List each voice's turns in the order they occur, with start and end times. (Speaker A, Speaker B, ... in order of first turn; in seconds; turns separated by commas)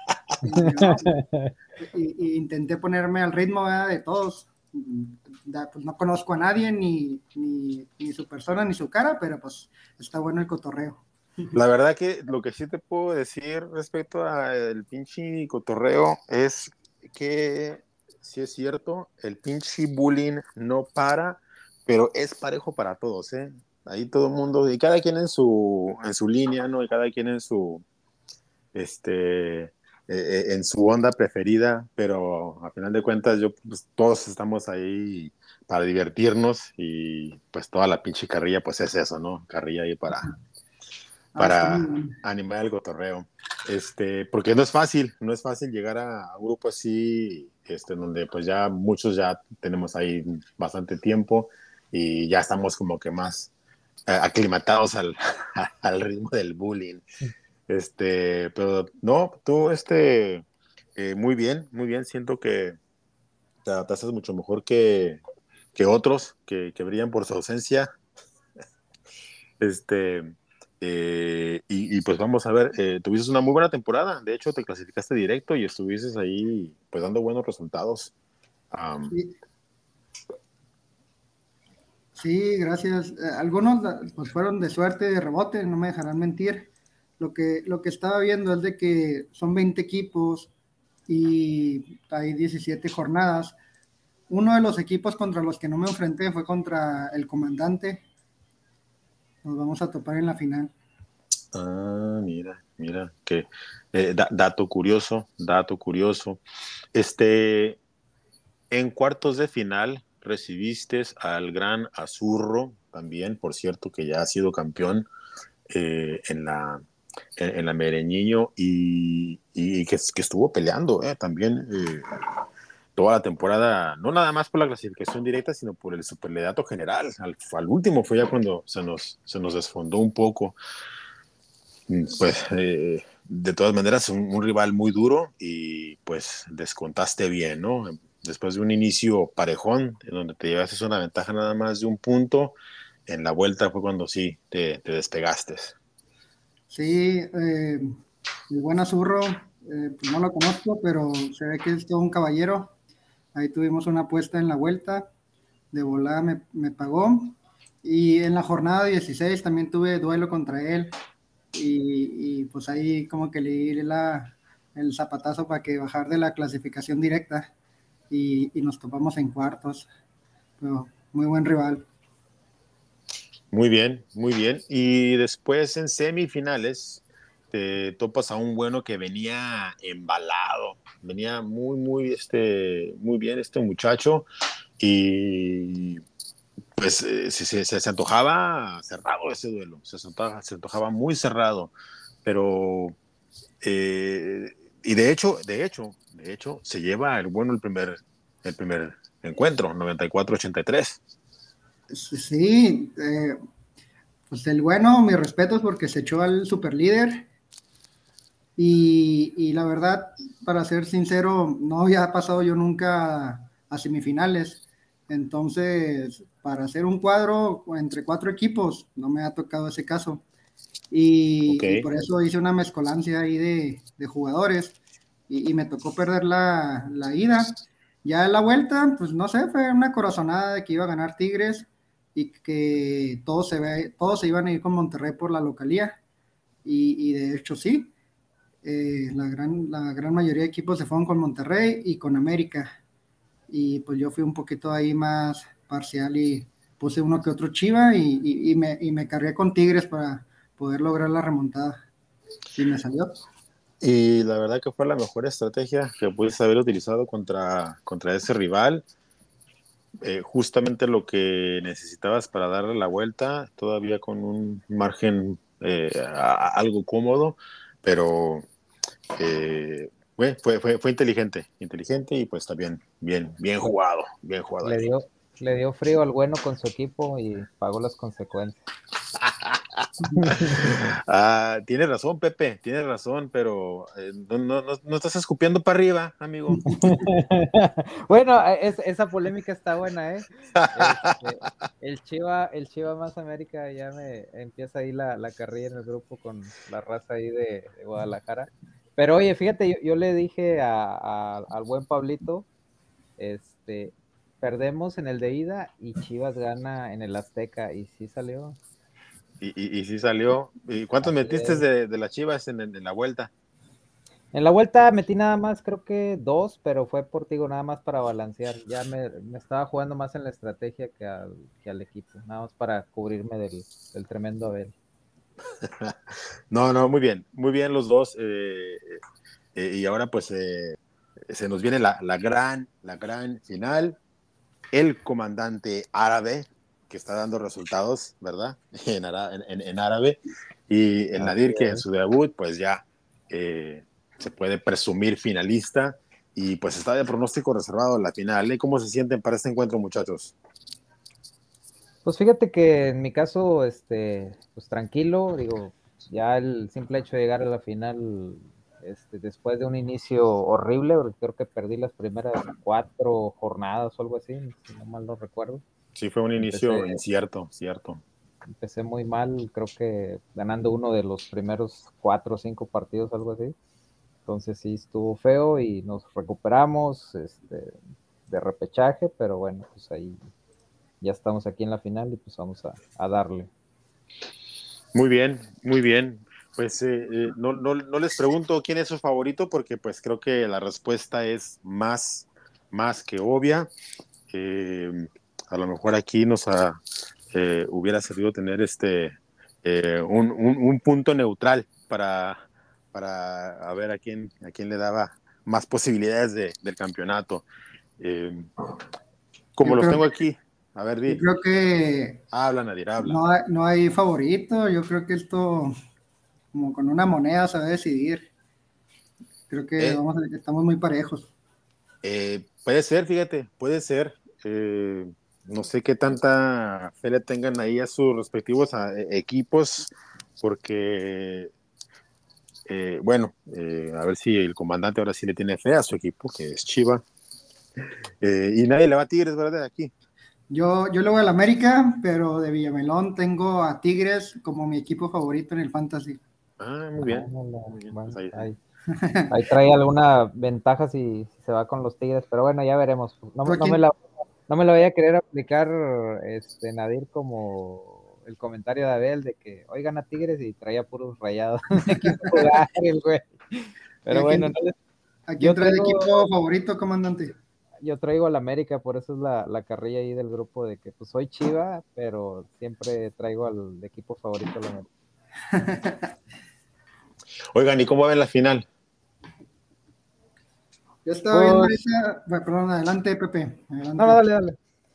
Speaker A: 0.4-1.2, Speaker B: 0.6-1.5, Speaker A: 1.8-11.6, Speaker C: 11.5-27.8, Speaker C: 28.7-40.3, Speaker A: 41.3-42.1, Speaker C: 41.4-53.5, Speaker C: 54.1-57.0, Speaker C: 57.7-62.8, Speaker C: 63.6-65.2, Speaker C: 65.7-67.9, Speaker C: 69.6-78.1, Speaker C: 78.7-79.1, Speaker A: 79.1-79.3, Speaker A: 82.1-90.5, Speaker A: 91.1-93.6, Speaker A: 94.3-98.0, Speaker A: 99.4-100.7, Speaker C: 101.5-106.4, Speaker C: 106.9-107.8, Speaker C: 108.7-115.1, Speaker C: 115.7-116.8, Speaker C: 117.4-122.0, Speaker C: 122.9-130.6, Speaker C: 131.9-145.7, Speaker A: 146.7-147.8, Speaker A: 148.5-152.7, Speaker A: 153.3-155.1, Speaker A: 155.7-160.9, Speaker A: 161.5-167.5, Speaker A: 168.1-169.9, Speaker A: 170.6-171.8, Speaker C: 173.5-184.3, Speaker C: 184.8-186.0, Speaker C: 186.8-191.7, Speaker C: 192.2-193.0, Speaker C: 193.6-201.0, Speaker A: 201.9-203.3, Speaker A: 204.3-207.3, Speaker A: 208.6-220.2, Speaker A: 220.9-224.8, Speaker C: 221.5-221.8, Speaker A: 225.3-236.0, Speaker A: 236.6-237.9, Speaker A: 238.6-242.7, Speaker A: 243.5-251.8, Speaker A: 252.5-253.2, Speaker C: 253.8-258.8, Speaker C: 260.0-268.4, Speaker C: 269.2-274.9, Speaker B: 274.6-278.6, Speaker C: 279.1-279.6, Speaker B: 280.2-280.6, Speaker C: 280.3-286.6, Speaker A: 286.5-287.0, Speaker B: 286.7-302.5, Speaker C: 290.6-291.1, Speaker B: 303.2-308.6, Speaker C: 309.4-313.3, Speaker B: 311.0-311.6, Speaker B: 314.3-324.7, Speaker C: 325.6-325.9, Speaker C: 326.5-329.0, Speaker C: 329.5-330.8, Speaker C: 331.3-334.0, Speaker C: 334.7-350.4, Speaker B: 341.1-341.8, Speaker B: 352.0-365.6, Speaker C: 365.9-368.0, Speaker B: 366.4-367.0, Speaker B: 368.5-373.6, Speaker B: 374.2-380.2, Speaker B: 381.0-383.5, Speaker C: 384.9-393.7, Speaker C: 394.3-396.8, Speaker C: 397.3-402.4, Speaker C: 402.9-407.4, Speaker C: 408.0-408.5, Speaker C: 409.6-411.2, Speaker A: 409.6-410.0, Speaker A: 411.1-412.2, Speaker C: 412.3-413.2, Speaker A: 413.0-415.7, Speaker A: 416.5-418.3, Speaker A: 419.5-421.3, Speaker C: 422.0-431.5, Speaker C: 432.7-437.0, Speaker C: 438.2-439.9, Speaker A: 440.5-446.2, Speaker C: 446.6-448.5, Speaker B: 447.0-448.6, Speaker A: 448.9-449.3, Speaker B: 449.3-464.7, Speaker A: 453.4-453.8, Speaker A: 462.0-462.5, Speaker A: 464.1-464.5, Speaker A: 465.3-467.3, Speaker B: 465.4-466.3, Speaker B: 467.8-474.9, Speaker A: 475.5-476.1, Speaker C: 477.5-478.7, Speaker A: 481.0-484.2, Speaker B: 481.3-481.7, Speaker B: 484.0-484.6